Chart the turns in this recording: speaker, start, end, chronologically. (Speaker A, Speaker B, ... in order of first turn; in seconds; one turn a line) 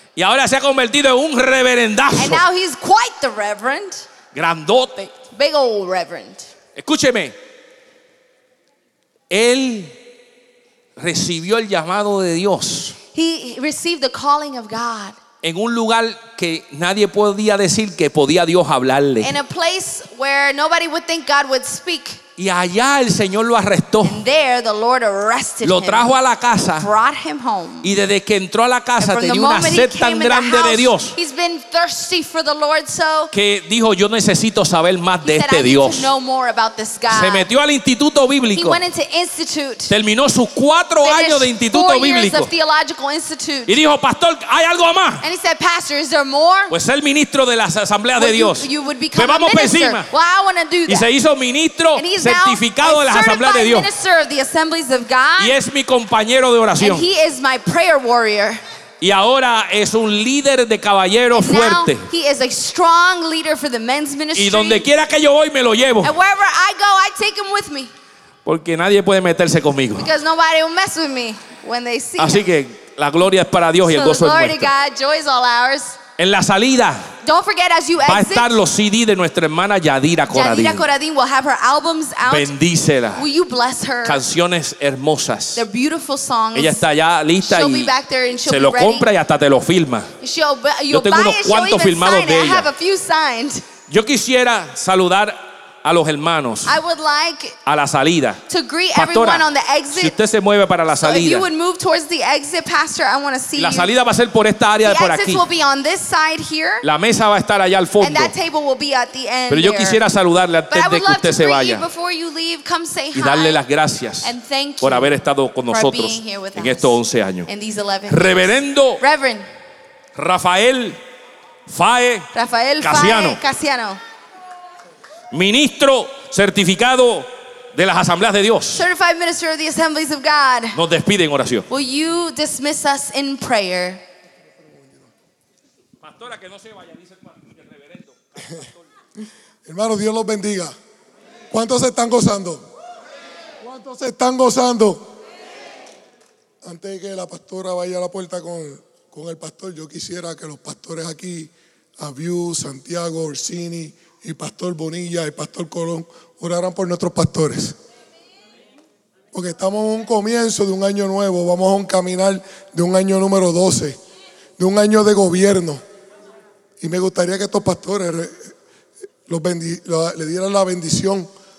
Speaker A: 0.1-2.4
Speaker B: 2.1-4.0
Speaker A: 4.3-5.1
Speaker B: 5.3-6.5
Speaker A: 6.8-7.3
Speaker A: 9.3-10.0
Speaker A: 11.0-13.0
Speaker B: 13.1-15.2
Speaker A: 15.4-19.3
Speaker B: 19.2-22.2
Speaker A: 22.4-24.2
Speaker B: 24.0-26.1
Speaker A: 25.6-26.9
Speaker B: 26.8-27.9
Speaker A: 27.8-31.1
Speaker B: 29.0-33.3
Speaker A: 33.3-36.1
Speaker B: 35.2-37.5
Speaker A: 37.1-38.8
Speaker B: 38.5-39.9
Speaker A: 39.9-42.5
Speaker B: 41.0-43.8
Speaker A: 43.7-45.2
Speaker B: 45.2-46.7
Speaker A: 46.7-50.1
Speaker B: 48.2-51.1
Speaker A: 50.9-53.9
Speaker B: 51.9-55.5
Speaker A: 55.4-57.1
Speaker B: 56.8-58.6
Speaker A: 59.0-62.1
Speaker B: 61.3-64.8
Speaker A: 64.3-66.1
Speaker B: 66.0-67.9
Speaker A: 68.4-70.1
Speaker B: 70.0-72.4
Speaker A: 72.2-74.7
Speaker B: 73.8-76.0
Speaker A: 76.2-77.1
Speaker B: 77.2-78.6
Speaker A: 78.0-80.9
Speaker B: 80.3-82.5
Speaker A: 82.2-83.2
Speaker B: 83.1-84.2
Speaker A: 84.0-85.6
Speaker B: 85.5-86.8
Speaker A: 86.5-87.9
Speaker B: 87.4-89.1
Speaker A: 88.5-90.1
Speaker B: 90.2-93.6
Speaker A: 90.9-92.7
Speaker A: 93.9-96.8
Speaker B: 96.7-97.6
Speaker A: 97.6-98.4
Speaker B: 98.5-100.1
Speaker A: 98.9-101.5
Speaker B: 101.0-103.9
Speaker A: 103.6-105.4
Speaker B: 104.8-106.8
Speaker A: 106.8-108.3
Speaker B: 108.0-110.0
Speaker A: 109.5-111.9
Speaker B: 110.7-113.6
Speaker A: 113.1-117.5
Speaker B: 114.2-115.2
Speaker B: 115.7-119.5
Speaker A: 118.1-119.0
Speaker A: 120.2-121.0
Speaker A: 121.7-122.3
Speaker B: 122.3-124.0
Speaker A: 122.8-123.4
Speaker A: 125.3-128.8
Speaker B: 128.7-130.8
Speaker A: 130.7-131.7
Speaker B: 131.7-134.0
Speaker A: 136.0-138.8
Speaker C: 139.7-140.7
Speaker C: 141.5-142.7
Speaker C: 143.6-145.1
Speaker C: 146.6-157.8
Speaker C: 159.3-164.0
Speaker C: 164.6-165.8
Speaker C: 166.8-168.5
Speaker C: 169.3-171.3